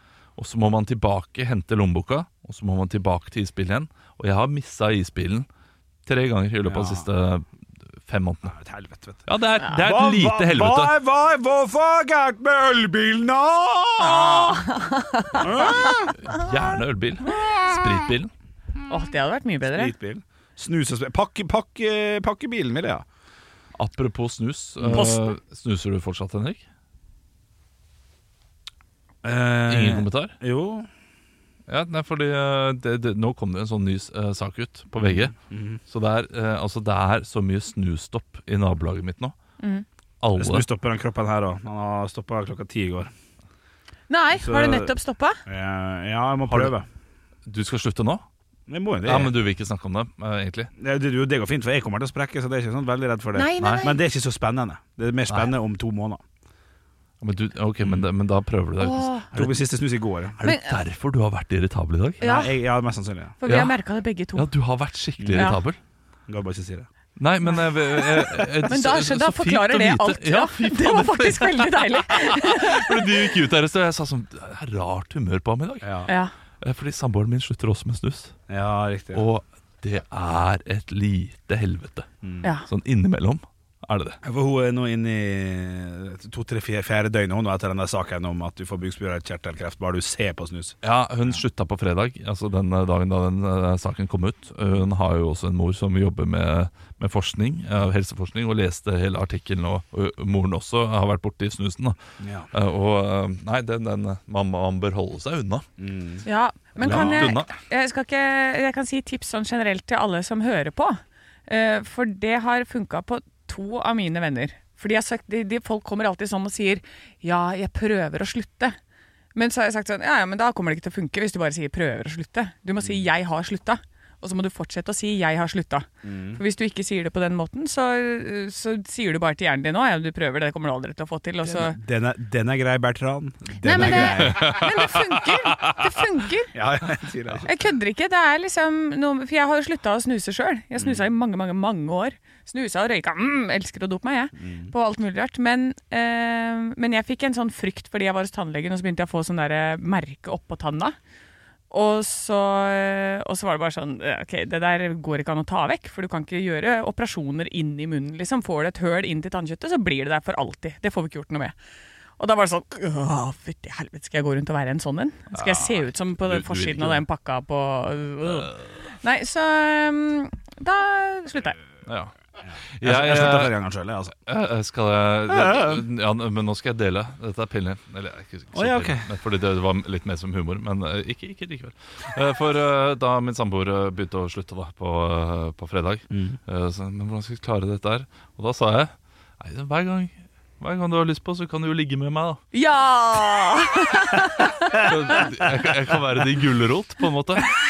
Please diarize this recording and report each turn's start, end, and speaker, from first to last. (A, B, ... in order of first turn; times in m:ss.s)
0:00.4-0:05.5 A
0:06.1-0:07.4 A
0:06.6-0:07.1 B
0:08.0-0:08.5 A
0:08.4-0:09.2 B
0:09.3-0:10.9 A
0:09.8-0:14.6 B
0:14.0-0:16.0 C
0:15.3-0:16.1 B
0:16.2-0:18.3 A
0:18.9-0:19.9 C
0:19.7-0:23.0 B
0:23.8-0:26.6 A
0:24.8-0:25.1 B
0:24.9-0:25.2 C
0:29.2-0:30.9 B
0:29.7-0:30.3 A
0:31.7-0:35.3 A
0:35.0-0:35.8 B
0:35.9-0:39.3 A
0:39.6-0:39.8 C
0:40.2-0:40.6 A
0:40.4-0:43.1 B
0:44.1-0:45.4 C
0:44.4-0:44.9 B
0:45.4-0:46.9 B
0:47.4-0:48.2 A
0:48.7-0:49.4 B
0:49.0-0:50.7 A
0:50.8-0:56.2 B
0:53.3-0:54.0 C
0:53.6-0:53.8 A
0:57.2-0:59.6 A
0:58.8-0:59.3 C
0:59.3-1:00.4 B
1:00.4-1:02.2 A
1:00.4-1:00.7 C
1:02.2-1:02.5 C
1:02.2-1:03.4 B
1:03.4-1:04.5 C
1:03.5-1:03.8 A
1:04.3-1:05.8 A
1:05.2-1:05.6 B
1:06.3-1:06.9 B
1:07.2-1:16.0 A
1:07.4-1:13.1 C
1:15.8-1:16.1 B
1:16.6-1:18.3 A
1:18.5-1:19.2 B
1:19.1-1:22.1 A
1:22.2-1:22.5 B
1:22.7-1:24.2 A
1:24.2-1:30.8 B
1:30.8-1:42.0 A
1:42.2-1:42.5 B
1:42.5-1:45.6 A
1:45.8-1:46.2 B
1:46.2-1:58.8 C
1:46.8-1:47.5 A
1:46.8-1:47.3 B
1:59.3-2:11.8 C
2:06.0-2:06.4 B
2:11.4-2:14.6 B
2:13.6-2:16.5 C
2:13.8-2:15.0 A
2:16.5-2:17.6 B
2:17.4-2:31.0 C
2:20.8-2:21.0 B
2:24.4-2:24.7 B
2:31.7-2:41.6 C
2:42.2-2:51.6 C
2:45.3-2:47.0 A
2:48.2-2:48.6 A
2:51.9-2:52.1 A
2:52.8-2:53.6 A
2:52.8-2:54.1 B
2:54.2-3:12.4 A
2:55.3-2:55.8 B
2:58.5-2:59.1 B
3:06.1-3:06.4 B
3:12.5-3:14.9 C
3:14.8-3:17.5 A